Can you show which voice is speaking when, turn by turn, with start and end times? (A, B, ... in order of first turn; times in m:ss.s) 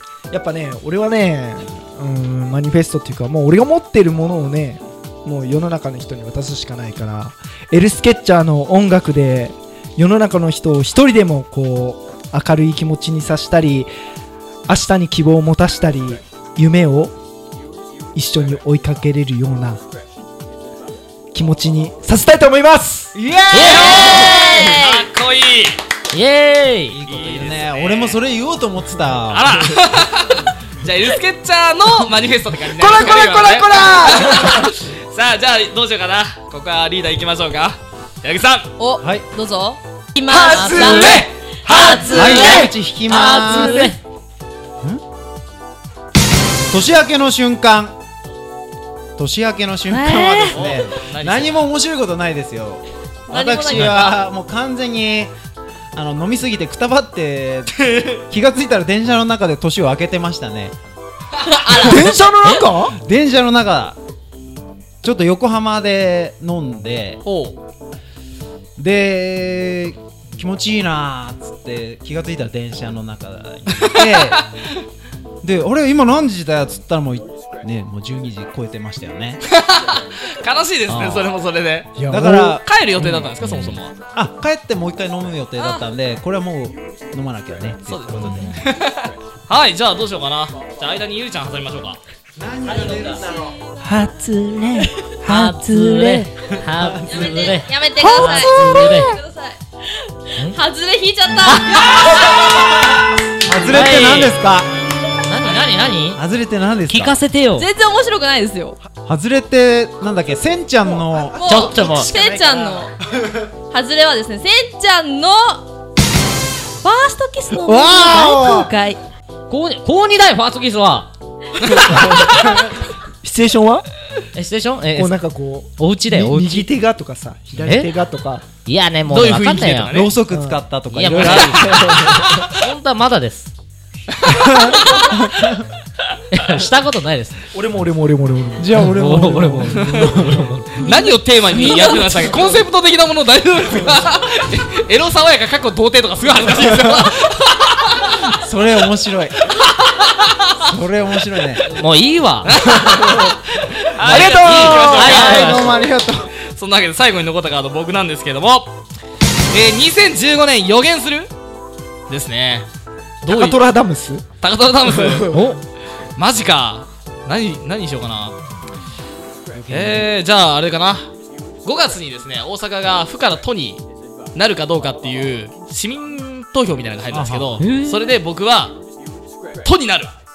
0:00.3-0:13.9 A
0:14.7-0:17.1 A
0:18.1-0:19.8 A
0:21.3-0:23.1 A
0:23.1-0:24.8 B
0:23.5-0:24.3 C
0:23.5-0:25.8 D
0:23.7-0:25.1 E
0:26.1-0:27.0 C
0:26.9-0:29.5 B
0:27.1-0:28.2 D
0:29.3-0:38.7 D
0:32.8-0:34.7 A
0:32.8-0:34.4 B
0:38.8-0:41.2 E
0:40.3-0:42.7 A
0:40.5-0:44.0 C
0:40.8-0:41.1 D
0:42.0-0:43.9 B
0:42.1-0:42.6 E
0:43.1-0:43.9 E
0:46.7-0:48.0 B
0:49.2-0:55.3 B
0:49.9-0:50.6 E
0:50.4-0:51.7 D
0:53.3-0:54.3 E
0:55.9-1:00.8 B
1:01.4-1:02.0 E
1:01.7-1:04.0 B
1:01.7-1:03.0 A
1:05.0-1:07.2 B
1:07.2-1:07.6 D
1:08.8-1:14.5 B
1:13.7-1:14.7 D
1:15.4-1:19.4 B
1:19.4-1:24.0 D
1:20.9-1:21.2 B
1:20.9-1:21.2 C
1:22.0-1:23.3 A
1:22.1-1:28.6 B
1:23.4-1:23.7 C
1:27.9-1:32.0 D
1:28.2-1:28.6 A
1:32.4-1:33.6 B
1:32.6-1:33.2 C
1:33.8-1:36.3 A
1:35.2-1:39.1 C
1:36.4-1:37.5 B
1:37.1-1:42.5 E
1:38.0-1:39.0 A
1:38.1-1:38.4 D
1:38.5-1:38.9 B
1:41.4-1:42.1 C
1:42.4-1:44.7 B
1:43.6-1:44.4 C
1:45.2-1:46.2 C
1:46.1-1:47.2 B
1:46.9-1:47.7 C
1:47.5-1:48.8 E
1:49.0-1:52.9 B
1:51.3-1:52.9 E
1:51.4-1:52.1 C
1:53.7-1:55.7 E
1:56.8-1:59.0 E
1:57.6-1:58.7 B
1:59.5-2:01.1 C
2:01.6-2:02.7 A
2:03.2-2:03.8 A
2:04.3-2:05.2 C
2:04.9-2:08.5 A
2:05.8-2:06.7 C
2:07.6-2:07.9 C
2:08.6-2:10.1 C
2:09.0-2:10.1 D
2:09.7-2:11.9 B
2:10.3-2:10.6 A
2:10.9-2:13.5 C
2:11.1-2:11.8 D
2:11.6-2:12.5 A
2:14.2-2:14.7 D
2:14.3-2:15.6 B
2:16.3-2:17.4 C
2:17.5-2:20.5 A
2:18.6-2:20.5 B
2:18.8-2:20.9 C
2:19.9-2:20.1 D
2:20.8-2:28.3 D
2:20.9-2:22.2 E
2:28.2-2:29.5 B
2:29.5-2:30.5 D
2:30.5-2:31.7 B
2:31.6-2:32.7 C
2:32.5-2:35.9 D
2:32.7-2:35.8 A
2:34.0-2:36.3 B
2:34.8-2:35.9 C
2:36.5-2:38.7 D
2:39.5-2:41.3 D
2:42.1-2:42.7 D
2:43.2-2:43.6 D
2:43.2-2:44.2 A
2:44.4-2:45.4 D
2:44.8-2:45.5 A
2:45.3-2:45.6 C
2:46.2-2:48.4 D
2:49.5-2:50.1 B
2:49.7-2:51.1 D
2:51.6-2:53.8 D
2:54.3-2:58.8 D
2:57.1-2:57.6 B
2:57.6-2:58.0 C
2:59.6-3:00.1 D